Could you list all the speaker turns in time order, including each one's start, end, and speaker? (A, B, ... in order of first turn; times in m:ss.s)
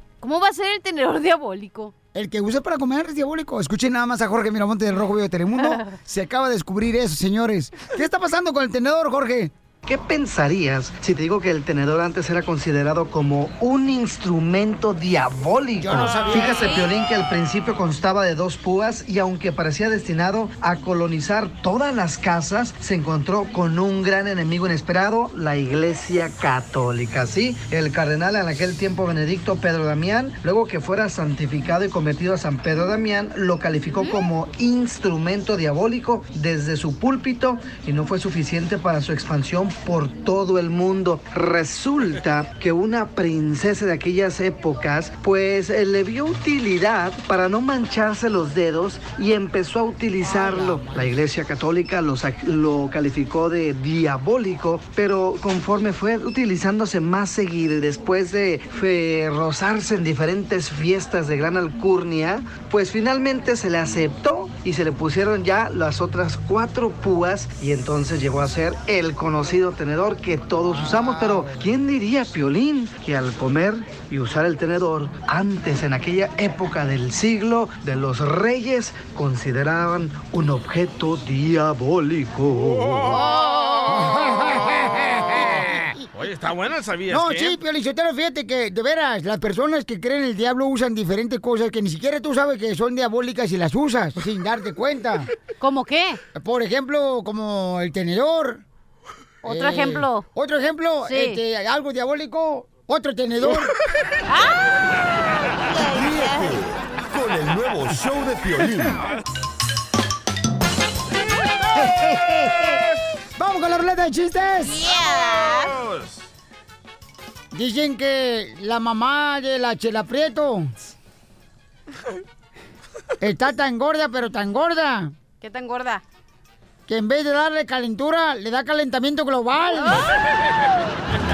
0:00.2-0:01.9 A
0:02.1-0:09.5 B
0:05.5-0:06.0 A
0:09.8-1:23.2 C
0:15.8-0:16.8 B
0:33.9-0:34.3 A
0:50.2-0:51.1 B
1:10.6-1:11.6 B
1:22.6-1:23.3 D
1:23.9-1:25.9 B
1:25.3-1:27.6 D
1:27.1-1:35.3 B
1:35.6-1:36.2 A
1:36.4-1:38.6 B
1:39.4-1:40.3 A
1:39.4-1:43.7 B
1:41.0-1:41.4 A
1:44.3-1:44.7 A
1:45.5-1:46.6 A
1:45.9-1:49.0 E
1:51.7-1:52.8 B
1:53.4-1:54.9 B
1:54.6-1:55.8 A
1:55.0-1:56.2 D
1:57.5-2:00.7 B
2:03.2-2:05.1 B
2:05.4-2:06.0 A
2:06.9-2:10.1 B
2:09.8-2:10.1 A